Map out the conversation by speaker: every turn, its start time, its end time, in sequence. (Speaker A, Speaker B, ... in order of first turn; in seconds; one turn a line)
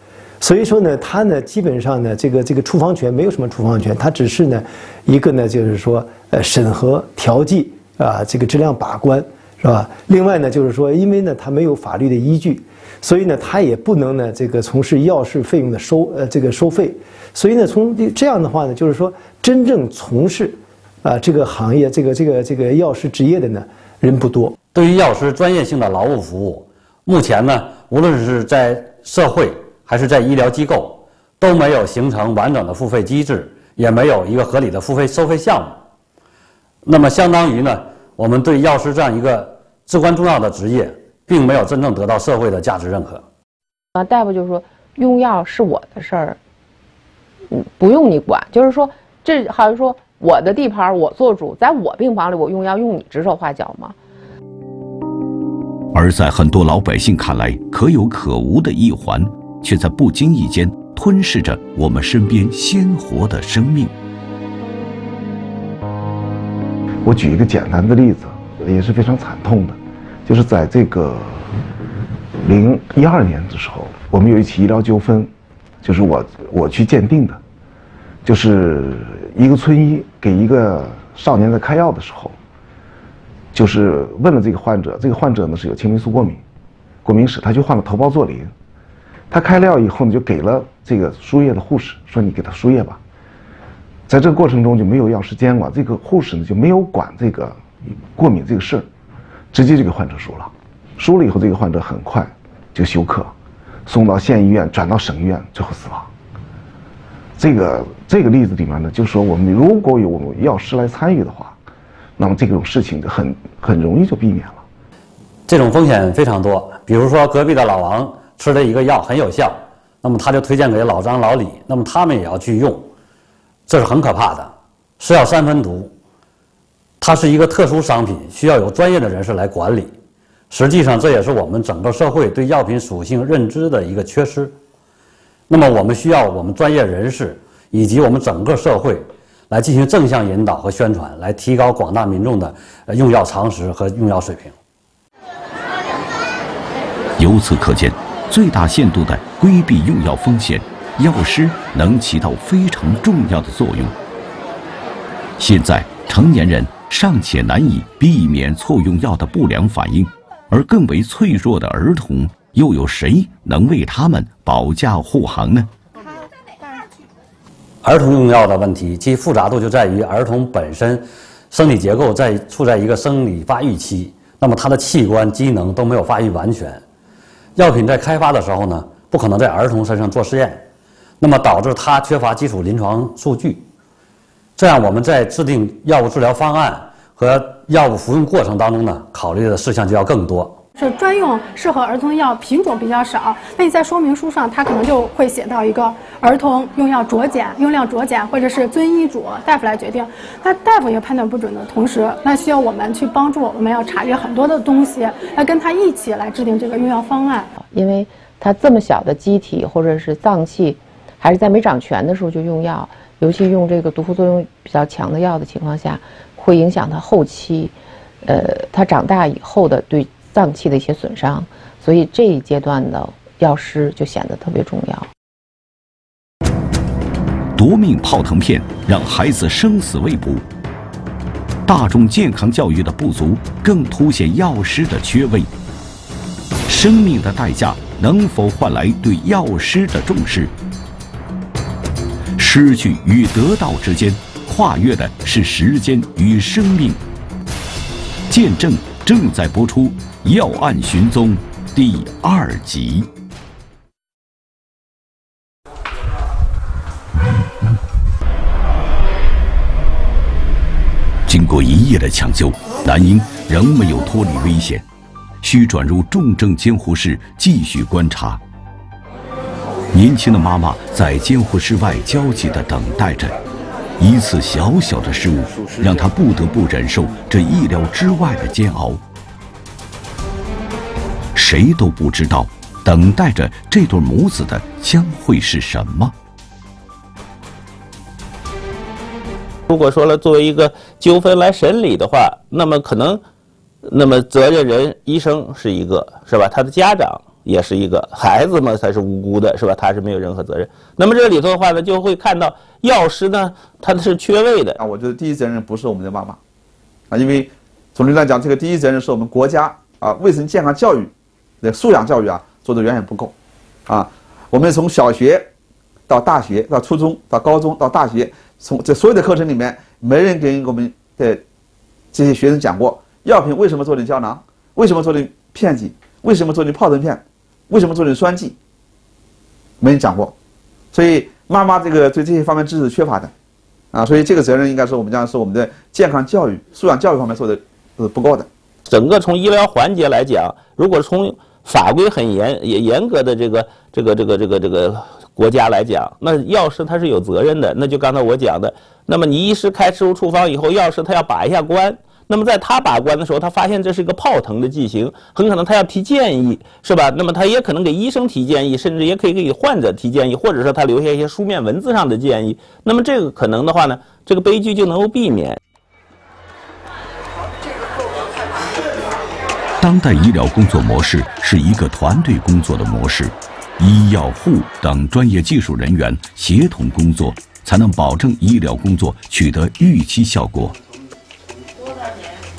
Speaker A: 0.4-24.5
Speaker B: 24.7-35.8
Speaker B: 36.9-43.2
Speaker C: 44.0-46.4
Speaker C: 47.5-54.0
Speaker D: 55.9-63.9
Speaker E: 67.0-71.6
Speaker E: 72.4-75.3
Speaker E: 75.8-77.4
Speaker E: 78.2-82.4
Speaker E: 83.5-86.4
Speaker E: 87.0-88.5
Speaker E: 89.3-93.0
Speaker E: 94.1-98.9
Speaker E: 99.5-103.3
Speaker E: 103.9-106.1
Speaker E: 107.4-111.5
Speaker E: 112.2-114.6
Speaker B: 115.5-122.9
Speaker B: 123.7-125.9
Speaker B: 127.0-129.9
Speaker B: 130.5-134.6
Speaker B: 135.5-144.6
Speaker D: 147.2-153.9
Speaker D: 155.4-165.7
Speaker B: 167.8-176.8
Speaker B: 177.6-180.6
Speaker B: 181.2-183.7
Speaker B: 184.6-190.6
Speaker F: 190.8-207.5
Speaker C: 207.6-225.1
Speaker D: 227.6-230.4
Speaker D: 231.7-235.5
Speaker D: 236.7-240.5
Speaker D: 242.4-247.0
Speaker D: 248.3-253.1
Speaker D: 261.3-264.9
Speaker D: 265.4-268.4
Speaker D: 269.9-273.4
Speaker D: 274.0-279.0
Speaker D: 281.4-286.1
Speaker G: 289.7-293.2
Speaker G: 293.8-304.8
Speaker H: 304.8-306.4
Speaker H: 307.1-313.3
Speaker H: 313.9-315.5
Speaker H: 316.1-321.4
Speaker H: 322.1-328.6
Speaker H: 329.8-330.3
Speaker H: 330.9-333.3
Speaker H: 333.9-338.5
Speaker G: 338.9-365.6
Speaker D: 369.8-380.8